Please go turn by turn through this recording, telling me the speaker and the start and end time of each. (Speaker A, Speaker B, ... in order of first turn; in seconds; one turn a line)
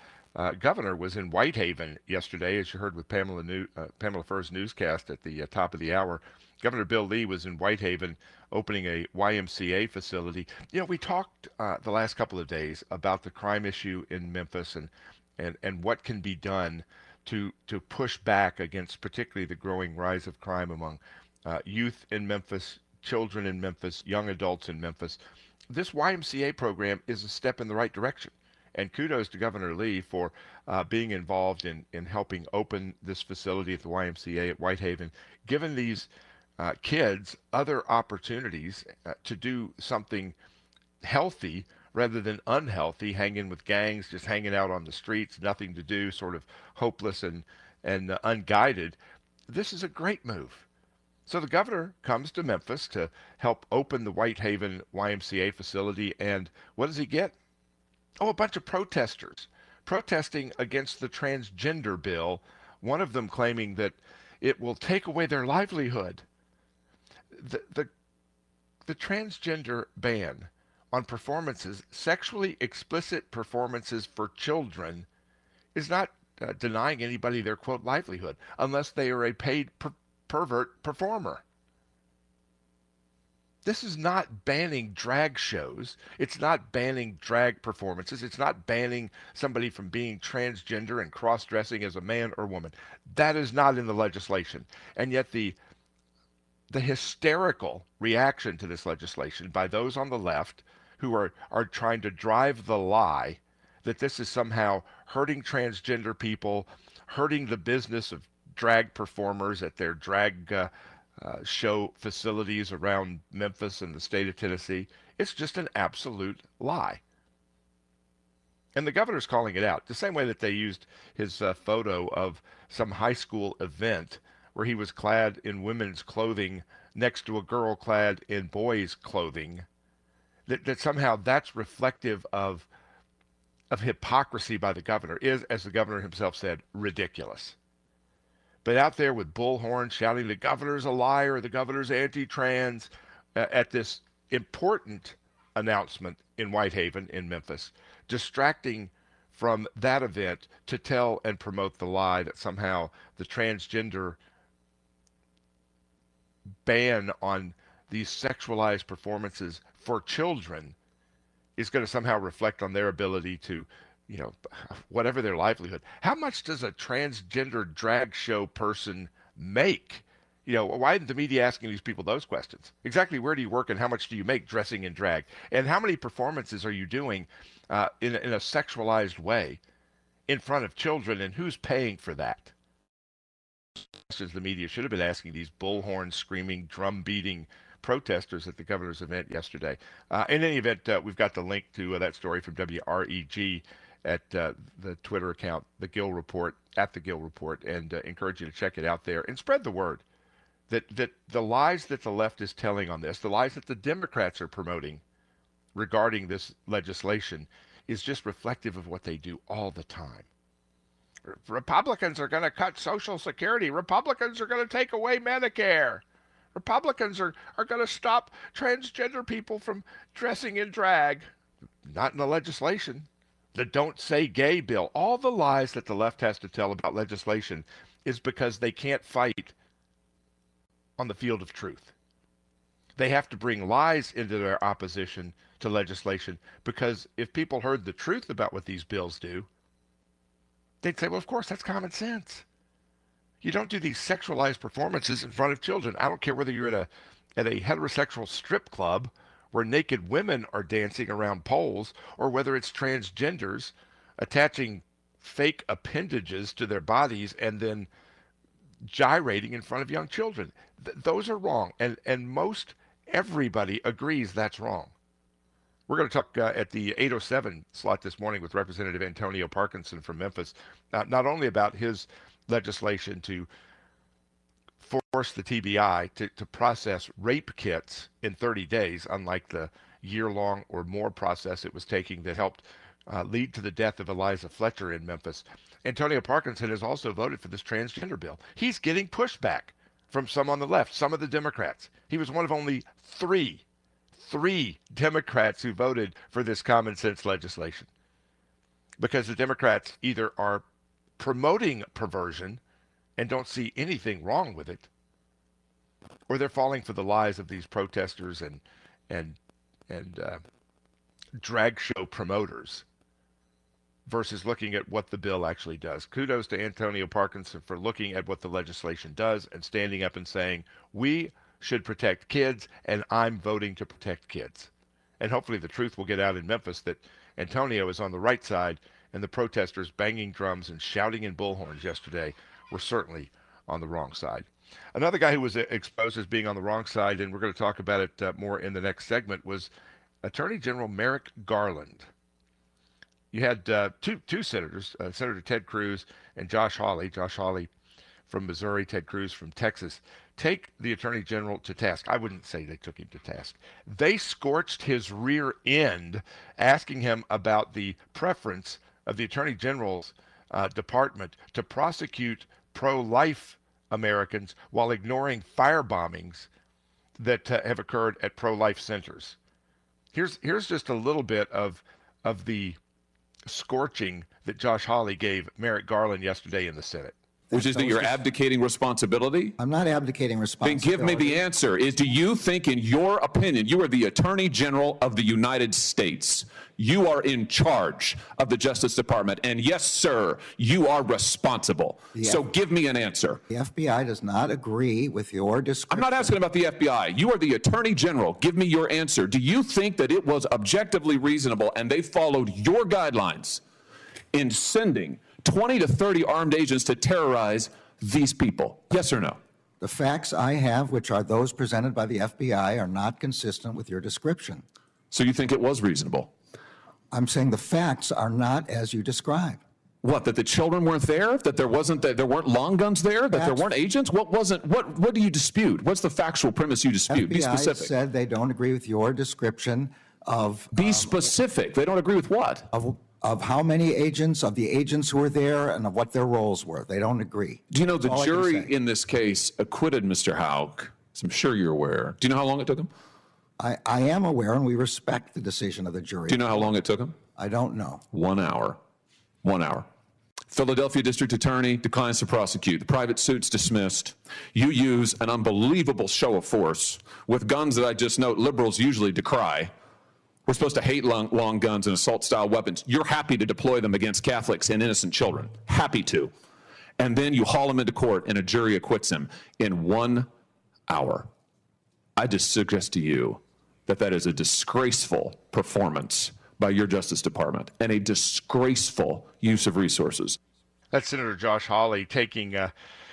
Speaker A: 0.3-25.2
Speaker A: 25.7-40.4
Speaker A: 41.0-49.0
Speaker A: 49.5-50.7
Speaker A: 51.3-57.3
Speaker A: 58.2-66.2
Speaker A: 67.3-67.9
Speaker A: 68.9-75.1
Speaker A: 75.8-81.4
Speaker A: 83.7-95.6
Speaker A: 96.7-117.0
Speaker A: 118.8-129.7
Speaker A: 130.5-132.7
Speaker A: 133.7-137.6
Speaker A: 138.6-154.2
Speaker A: 156.7-160.8
Speaker A: 161.6-179.6
Speaker A: 180.3-182.5
Speaker A: 184.0-200.0
Speaker A: 200.7-205.0
Speaker A: 205.8-210.3
Speaker A: 211.3-216.0
Speaker A: 216.6-221.3
Speaker A: 221.8-229.6
Speaker A: 231.0-231.9
Speaker A: 233.0-239.5
Speaker A: 240.8-242.4
Speaker A: 243.4-257.9
Speaker A: 258.9-264.9
Speaker A: 265.9-273.5
Speaker A: 274.8-297.9
Speaker A: 299.0-300.6
Speaker A: 301.2-302.6
Speaker A: 303.2-304.9
Speaker A: 306.3-309.4
Speaker A: 309.9-310.4
Speaker A: 311.4-312.9
Speaker A: 314.1-339.7
Speaker A: 340.2-342.1
Speaker A: 343.3-347.7
Speaker A: 348.3-366.5
Speaker A: 367.2-369.4
Speaker A: 370.1-372.8
Speaker A: 373.5-377.1
Speaker B: 377.5-378.2
Speaker C: 377.5-379.6
Speaker B: 379.6-381.4
Speaker C: 380.6-393.4
Speaker B: 392.2-392.4
Speaker B: 393.5-396.4
Speaker C: 395.9-403.6
Speaker C: 404.3-409.4
Speaker B: 409.8-414.6
Speaker C: 415.1-416.3
Speaker B: 417.1-419.6
Speaker C: 420.0-427.9
Speaker B: 423.3-423.6
Speaker B: 427.1-431.2
Speaker C: 430.7-432.7
Speaker B: 432.7-438.7
Speaker C: 437.7-442.9
Speaker B: 443.6-446.7
Speaker C: 446.3-447.2
Speaker B: 447.4-448.0
Speaker C: 448.1-448.8
Speaker C: 449.4-449.9
Speaker C: 450.5-459.7
Speaker C: 460.5-466.3
Speaker C: 467.0-470.3
Speaker C: 470.9-471.3
Speaker C: 472.2-480.4
Speaker A: 480.9-482.7